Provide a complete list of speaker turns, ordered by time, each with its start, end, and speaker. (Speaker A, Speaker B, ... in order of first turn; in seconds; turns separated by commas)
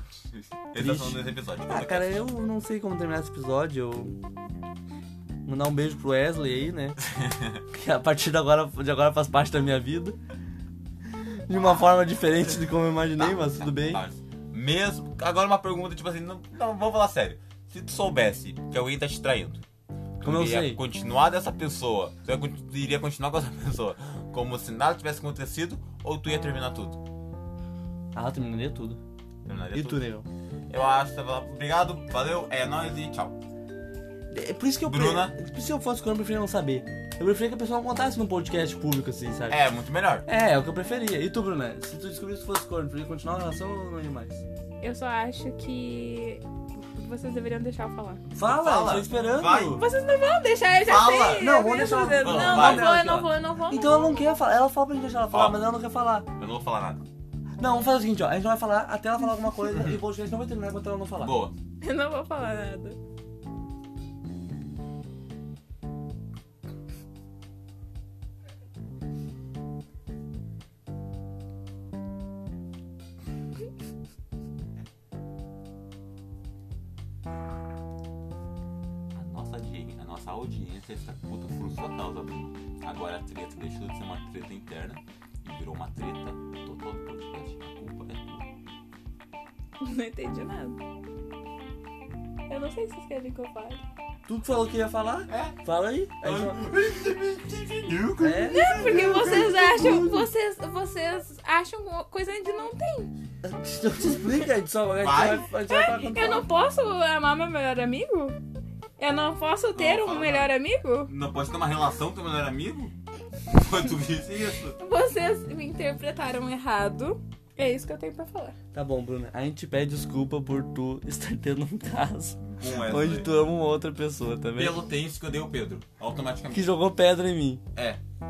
Speaker A: 0.3-2.3, Speaker B: 0.8-4.2, Speaker B: 5.5-7.0, Speaker A: 7.1-7.6, Speaker B: 7.7-10.2, Speaker B: 11.5-14.0, Speaker A: 13.2-19.6, Speaker B: 20.2-20.8, Speaker A: 20.2-27.0, Speaker B: 28.1-29.0, Speaker A: 29.4-30.0, Speaker B: 29.7-30.2, Speaker A: 30.7-33.4, Speaker B: 34.3-39.6, Speaker A: 34.9-35.4, Speaker A: 39.5-40.2, Speaker B: 40.2-44.4, Speaker C: 44.8-46.4, Speaker C: 46.9-48.2, Speaker B: 48.4-49.8, Speaker A: 48.4-49.8, Speaker C: 49.6-54.4, Speaker A: 50.8-51.5, Speaker B: 51.4-56.3, Speaker A: 52.2-52.9, Speaker A: 55.3-55.6, Speaker A: 56.4-57.0, Speaker B: 57.6-61.4, Speaker A: 59.7-60.0, Speaker A: 61.2-61.5, Speaker C: 61.8-63.0, Speaker A: 79.1-88.5, Speaker C: 89.8-90.8, Speaker C: 92.5-93.8, Speaker B: 94.3-96.6, Speaker A: 95.3-95.6, Speaker A: 96.2-99.6, Speaker B: 98.2-100.3, Speaker C: 98.5-103.1, Speaker B: 103.4-106.5, Speaker A: 105.0-105.5, Speaker C: 105.7-108.4, Speaker C: 109.0-111.1, Speaker A: 109.7-110.5, Speaker A: 111.1-112.9, Speaker A: 113.5-114.8, Speaker C: 114.8-118.6, Speaker B: 118.7-124.8, Speaker A: 122.4-123.3, Speaker A: 124.6-126.7, Speaker B: 126.5-127.6, Speaker A: 127.7-128.0